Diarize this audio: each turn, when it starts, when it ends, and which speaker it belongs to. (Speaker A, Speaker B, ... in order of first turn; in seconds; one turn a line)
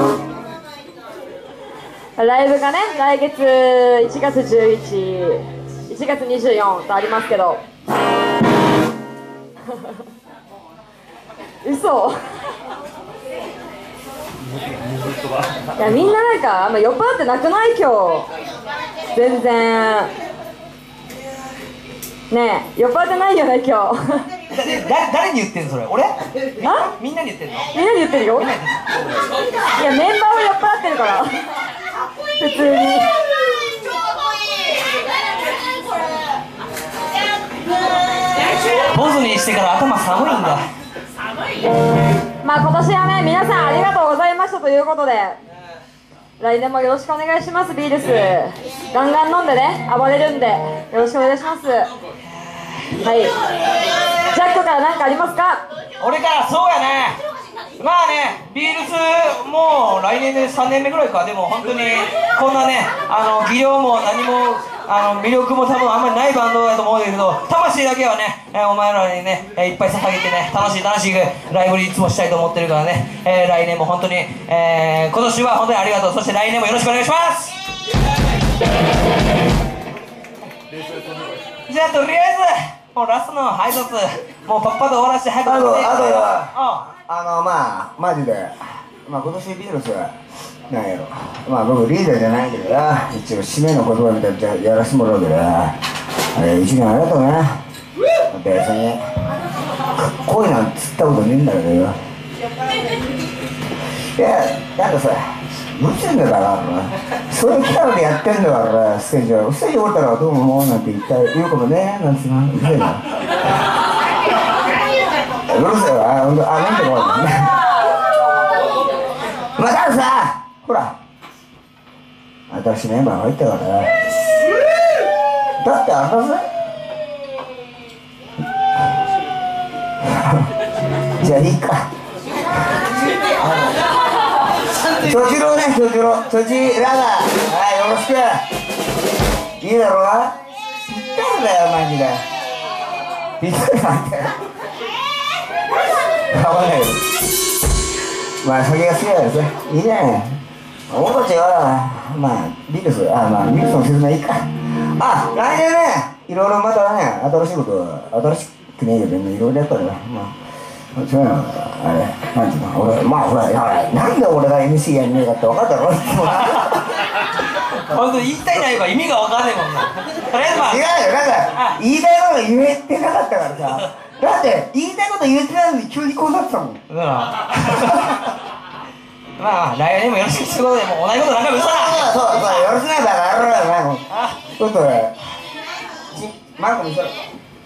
Speaker A: 2.2-7.6
Speaker A: 11.6-12.2
Speaker A: 15.8-18.3
Speaker A: 19.1-20.1
Speaker A: 22.3-24.3
Speaker B: 24.5-27.7
Speaker A: 26.6-26.9
Speaker A: 27.7-28.5
Speaker B: 28.4-28.8
Speaker A: 29.7-31.4
Speaker A: 32.4-33.2
Speaker B: 38.8-40.7
Speaker A: 42.4-45.4
Speaker A: 46.4-51.9
Speaker A: 53.0-53.4
Speaker A: 54.1-55.6
Speaker B: 56.0-57.2
Speaker B: 57.8-77.6
Speaker B: 81.7-86.9
Speaker C: 85.4-86.5
Speaker C: 87.1-97.6
Speaker C: 98.3-99.1
Speaker C: 99.9-102.0
Speaker C: 104.0-113.0
Speaker C: 115.4-117.6
Speaker C: 119.3-120.9
Speaker C: 122.5-123.9
Speaker C: 125.6-126.5
Speaker C: 130.0-130.5
Speaker C: 131.2-131.9
Speaker C: 134.9-138.4
Speaker C: 139.6-142.2
Speaker C: 143.4-144.4
Speaker C: 146.2-147.0
Speaker C: 148.4-160.3
Speaker C: 160.9-167.0
Speaker B: 166.4-170.8
Speaker C: 170.6-176.8
Speaker B: 176.9-178.3
Speaker B: 179.4-182.2
Speaker C: 181.6-185.1
Speaker B: 184.1-184.4
Speaker C: 186.1-187.2